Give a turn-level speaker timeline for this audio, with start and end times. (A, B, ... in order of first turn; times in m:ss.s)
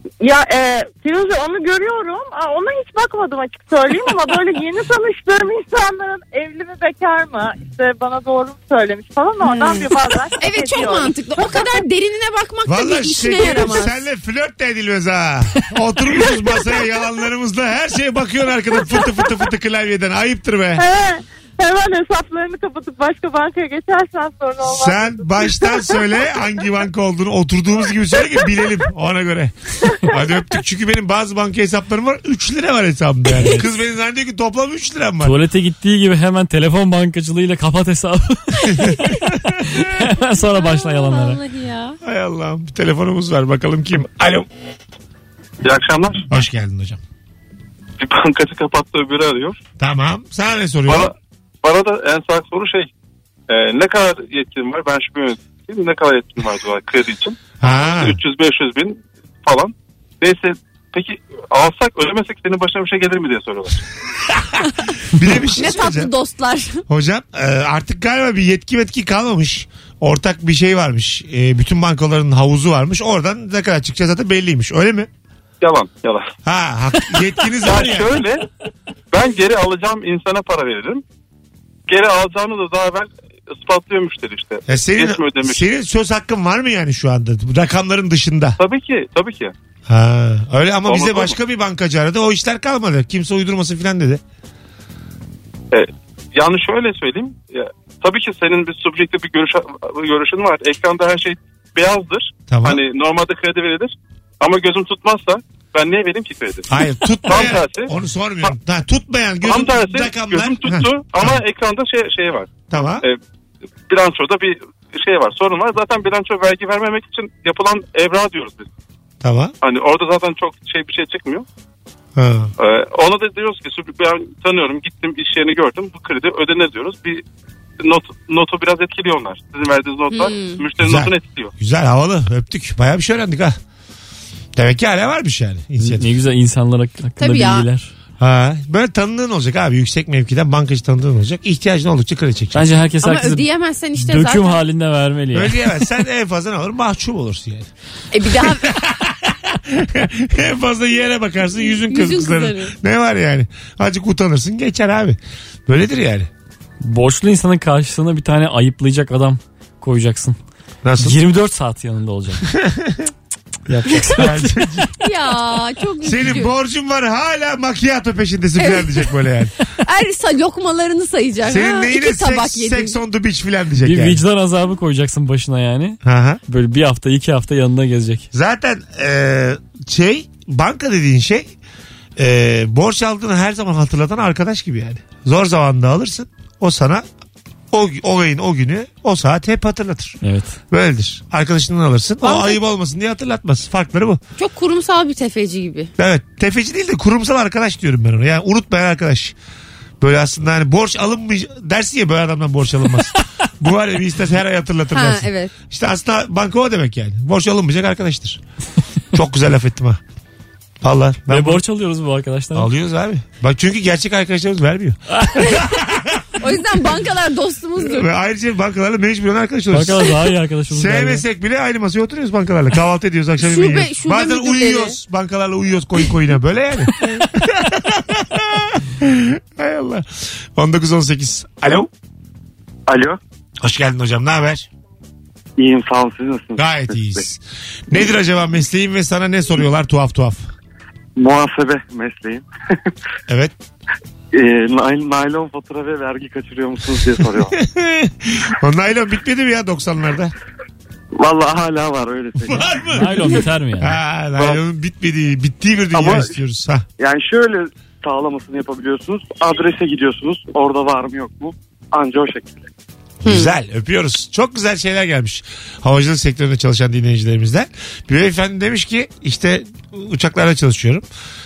0:00.2-0:11.8 A
0:09.4-0:14.0 B
0:12.7-0:20.8 C
0:20.8-0:26.3 A
0:24.6-0:35.4 C
0:35.2-0:41.4 D
0:38.7-0:39.8 C
0:40.4-0:42.0 B
0:42.0-0:44.5 C
0:45.6-0:46.2 E
0:46.3-0:47.0 C
0:48.0-0:49.6 E
0:49.8-0:51.1 C
0:50.9-0:52.9 E
0:53.5-1:03.8 E
0:57.6-0:58.2 C
1:04.3-1:04.6 C
1:05.1-1:06.1 C
1:05.4-1:06.8 B
1:06.9-1:15.1 C
1:15.6-1:16.3 E
1:16.4-1:18.1 C
1:17.6-1:18.4 E
1:19.1-1:21.0 E
1:21.9-1:25.6 E
1:24.7-1:28.6 C
1:28.6-1:29.5 E
1:29.9-1:34.2 C
1:30.9-1:31.4 E
1:35.7-1:46.7 E
1:42.5-1:42.8 C
1:46.7-1:51.4 C
1:47.2-1:47.9 E
1:49.4-1:53.2 E
1:52.7-1:53.0 C
1:53.9-1:58.7 E
1:59.2-1:59.5 C
1:59.6-2:01.5 E
2:02.2-2:02.5 C
2:02.6-2:07.2 E
2:07.8-2:11.5 E
2:10.1-2:10.6 B
2:10.8-2:13.6 C
2:14.6-2:16.1 C
2:15.8-2:17.9 D
2:17.2-2:17.7 B
2:18.2-2:22.7 C
2:22.5-2:23.5 D
2:23.0-2:24.6 B
2:24.0-2:25.6 D
2:25.3-2:27.7 C
2:28.1-2:28.8 B
2:28.3-2:36.3 C
2:31.6-2:32.7 B
2:36.8-2:40.4 D
2:40.8-2:41.2 C
2:41.0-2:42.4 D
2:42.5-2:43.1 C
2:43.7-2:44.7 D
2:44.1-2:44.9 C
2:45.0-2:46.5 B
2:46.0-2:49.5 C
2:48.6-2:49.0 B
2:49.8-2:53.0 B
2:51.4-2:54.2 C
2:53.8-2:56.0 D
2:56.0-2:56.4 C
2:56.5-2:58.3 D
2:58.3-3:01.5 C
3:02.2-3:07.0 C
3:07.7-3:10.2 C
3:10.2-3:10.6 D
3:10.7-3:14.2 C
3:12.2-3:12.6 B
3:14.4-3:15.9 B
3:16.0-3:19.4 C
3:20.0-3:28.4 C
3:24.9-3:25.5 B
3:29.1-3:30.0 C
3:30.8-3:31.6 C
3:31.3-3:32.7 D
3:32.6-3:36.2 C
3:35.5-3:35.7 B
3:36.4-3:38.1 B
3:37.8-3:40.2 C
3:39.7-3:41.2 D
3:40.7-3:51.9 C
3:43.4-3:45.0 B
3:47.0-3:47.3 B
3:52.9-3:53.2 F
3:53.6-3:54.7 C
3:55.6-3:57.2 F
3:56.6-4:00.5 C
4:01.2-4:02.5 F
4:03.3-4:03.5 C
4:04.3-4:07.6 F
4:07.6-4:10.3 C
4:11.2-4:13.1 F
4:12.4-4:16.8 C
4:12.9-4:14.0 D
4:15.9-4:16.4 F
4:17.0-4:22.7 F
4:23.2-4:31.0 C
4:23.2-4:23.5 B